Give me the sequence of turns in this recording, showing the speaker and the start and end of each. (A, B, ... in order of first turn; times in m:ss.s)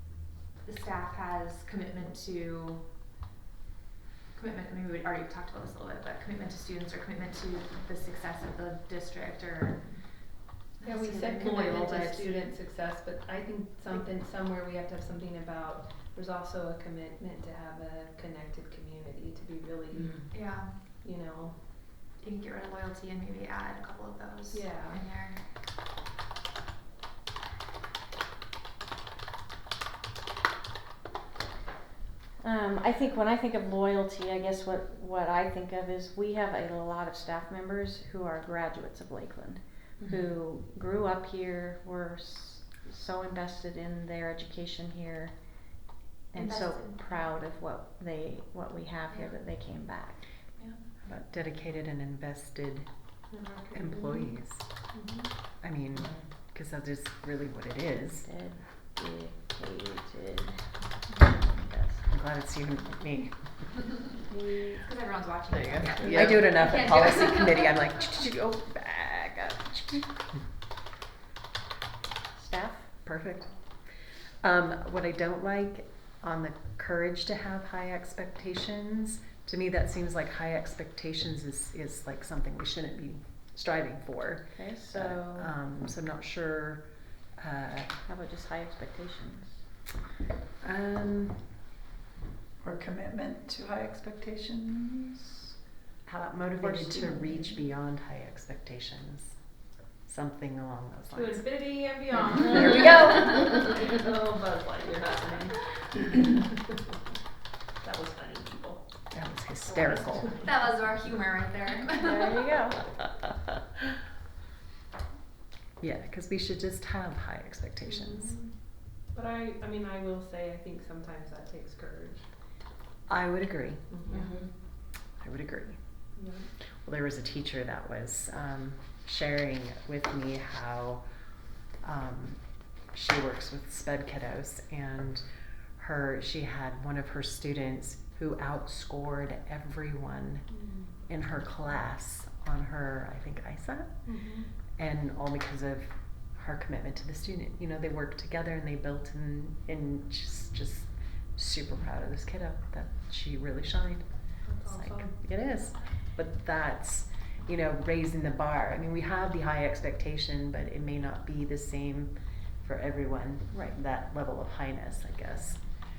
0:00.6-0:02.9 A
0:04.3-0:10.0 A
0:10.8-0:12.5 A
0:10.8-0:20.3 B
0:20.3-0:20.8 A
0:21.0-0:21.6 B
0:22.2-0:25.4 A
0:24.5-0:25.0 B
0:32.4-0:45.5 C
0:46.3-0:50.2 C
0:46.3-0:47.2 A
0:50.6-0:50.9 A
0:51.0-0:52.9 D
0:53.3-0:54.4 B
0:53.7-0:54.7 D
0:54.9-0:55.3 B
0:55.6-0:58.3 D
0:58.2-1:02.1 C
1:02.1-1:03.4 D
1:04.3-1:04.8 C
1:04.8-1:07.8 A
1:05.7-1:10.1 D
1:12.4-1:12.9 C
1:13.0-1:13.5 D
1:14.4-1:26.8 D
1:24.6-1:25.5 C
1:27.4-1:28.0 D
1:28.1-1:29.6 C
1:30.6-1:31.4 D
1:32.6-1:35.5 E
1:36.0-1:39.4 D
1:36.6-1:37.5 C
1:40.1-1:41.4 D
1:41.1-1:46.6 B
1:47.8-1:48.8 B
1:49.1-1:50.4 D
1:49.8-1:52.5 A
1:50.0-1:50.5 B
1:51.9-1:52.8 C
1:55.8-1:58.4 D
1:57.8-1:58.5 B
1:59.1-2:02.3 B
2:03.1-2:03.8 D
2:03.9-2:04.5 B
2:05.2-2:05.8 D
2:06.2-2:06.5 B
2:06.8-2:11.0 D
2:11.8-2:12.4 D
2:12.9-2:15.2 D
2:15.8-2:20.4 D
2:20.5-2:20.9 B
2:21.1-2:24.0 D
2:24.1-2:24.5 B
2:24.8-2:45.6 D
2:34.5-2:35.1 B